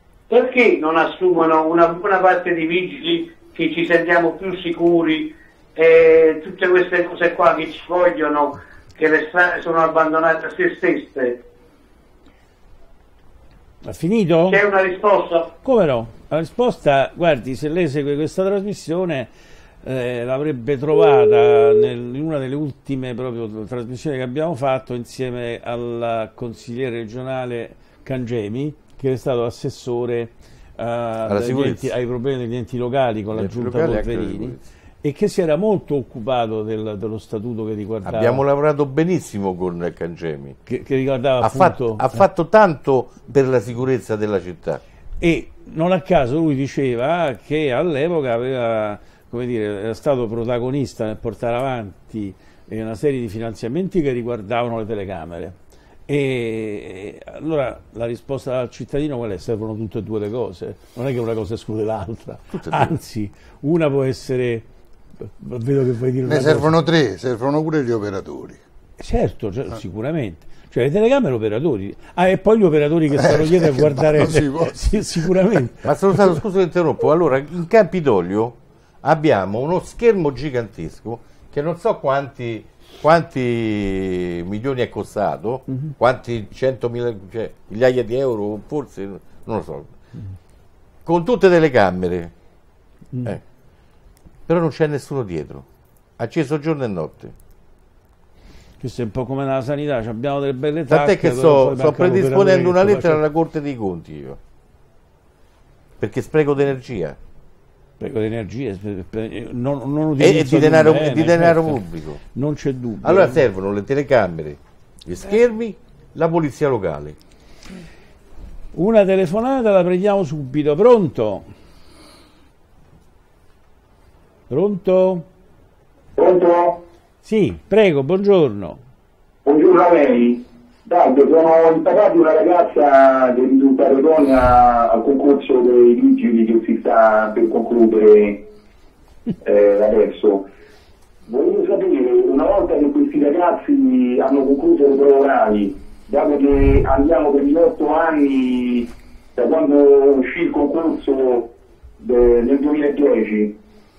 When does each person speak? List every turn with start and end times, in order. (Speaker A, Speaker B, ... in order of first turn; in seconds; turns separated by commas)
Speaker A: 0.3-11.4, Speaker B: 13.8-14.6, Speaker A: 14.5-15.5, Speaker B: 15.6-19.3, Speaker B: 19.8-38.4, Speaker C: 31.3-31.9, Speaker C: 33.3-34.6, Speaker C: 38.0-40.6, Speaker B: 40.7-42.2, Speaker C: 41.4-44.8, Speaker B: 45.2-55.6, Speaker B: 56.1-64.7, Speaker C: 62.5-62.9, Speaker B: 65.2-66.8, Speaker D: 66.2-68.6, Speaker B: 69.0-76.2, Speaker D: 73.2-75.3, Speaker C: 75.8-89.9, Speaker B: 85.7-85.9, Speaker C: 91.0-92.3, Speaker B: 93.1-93.4, Speaker C: 94.5-95.7, Speaker C: 96.2-97.3, Speaker B: 98.8-103.2, Speaker C: 100.9-104.4, Speaker C: 106.0-107.2, Speaker B: 108.0-111.8, Speaker C: 110.2-112.2, Speaker B: 112.3-113.4, Speaker C: 113.0-117.2, Speaker B: 118.7-121.5, Speaker B: 124.5-125.3, Speaker E: 126.2-126.8, Speaker B: 127.2-128.8, Speaker E: 129.5-138.4, Speaker E: 139.4-140.4, Speaker E: 141.3-151.4, Speaker E: 152.0-153.5